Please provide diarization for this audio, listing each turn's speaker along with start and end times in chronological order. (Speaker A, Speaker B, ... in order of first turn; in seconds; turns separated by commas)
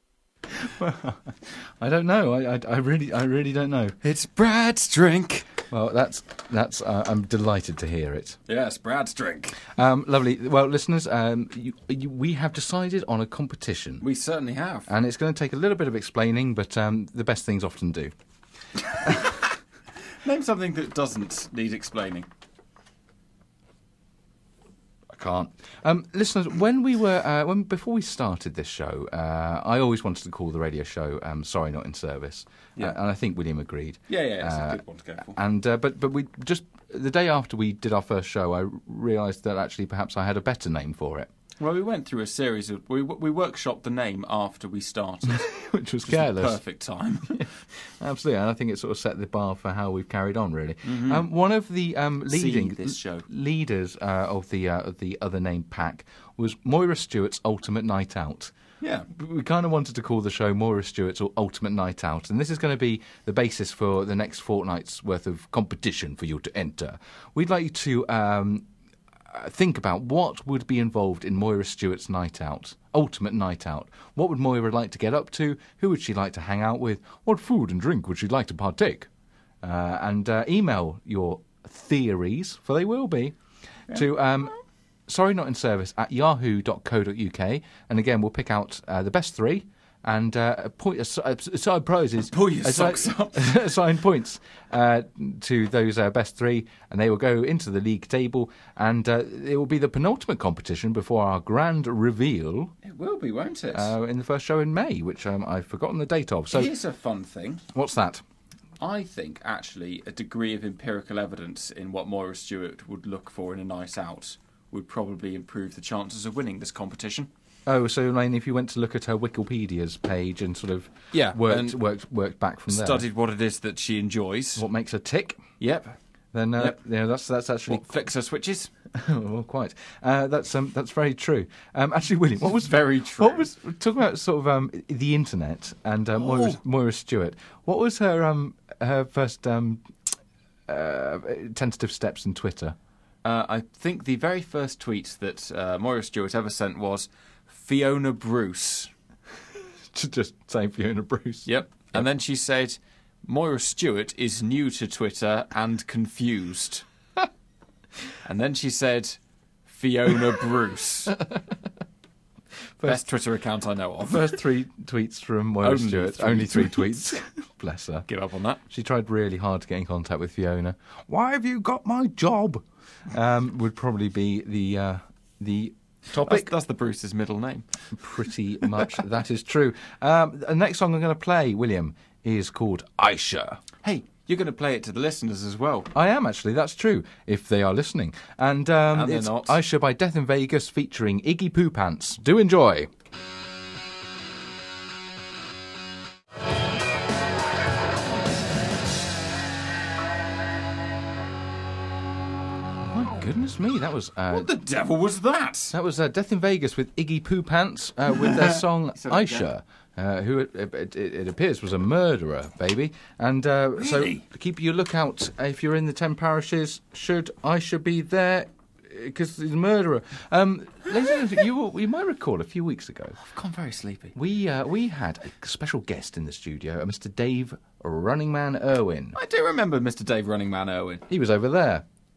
Speaker A: 0.5-4.0, Speaker B: 4.0-5.5, Speaker A: 5.7-8.4, Speaker B: 8.5-9.6, Speaker A: 9.6-14.0, Speaker B: 14.0-14.9, Speaker A: 14.9-18.1, Speaker B: 19.0-19.4, Speaker B: 20.2-22.3, Speaker A: 25.1-41.3, Speaker B: 34.1-35.4, Speaker B: 41.6-45.5, Speaker A: 45.4-46.6, Speaker B: 46.0-47.5, Speaker A: 47.3-58.5, Speaker B: 50.9-51.3, Speaker B: 52.3-53.3, Speaker B: 58.8-59.1, Speaker A: 59.1-68.7, Speaker A: 69.3-79.1, Speaker A: 79.6-83.4, Speaker A: 83.9-84.6, Speaker A: 85.1-102.7, Speaker B: 92.3-93.6, Speaker B: 102.8-103.9, Speaker A: 103.7-106.7, Speaker B: 106.5-107.6, Speaker A: 107.7-108.2, Speaker B: 108.8-117.3, Speaker A: 117.7-123.0, Speaker B: 121.1-121.8, Speaker B: 122.7-124.7, Speaker A: 124.6-125.4, Speaker B: 125.6-126.0, Speaker A: 126.3-127.9, Speaker B: 127.7-128.7, Speaker A: 128.9-139.9, Speaker B: 132.5-133.5, Speaker B: 136.2-136.6, Speaker A: 140.7-142.8, Speaker B: 143.2-148.9, Speaker A: 149.9-152.1, Speaker B: 151.5-156.9, Speaker B: 158.2-161.2, Speaker A: 162.8-163.0, Speaker B: 162.8-164.4, Speaker A: 164.1-168.1, Speaker B: 165.6-166.9, Speaker B: 168.1-168.6, Speaker A: 168.7-176.5, Speaker B: 176.1-177.7, Speaker A: 177.9-183.6, Speaker B: 183.8-185.9, Speaker A: 185.9-192.9, Speaker B: 188.9-189.6, Speaker A: 202.9-204.5, Speaker B: 204.3-205.8, Speaker A: 205.7-223.2, Speaker B: 208.1-209.5, Speaker B: 213.8-214.2, Speaker B: 223.2-224.1, Speaker A: 224.1-229.2, Speaker B: 229.2-231.1, Speaker A: 231.1-231.9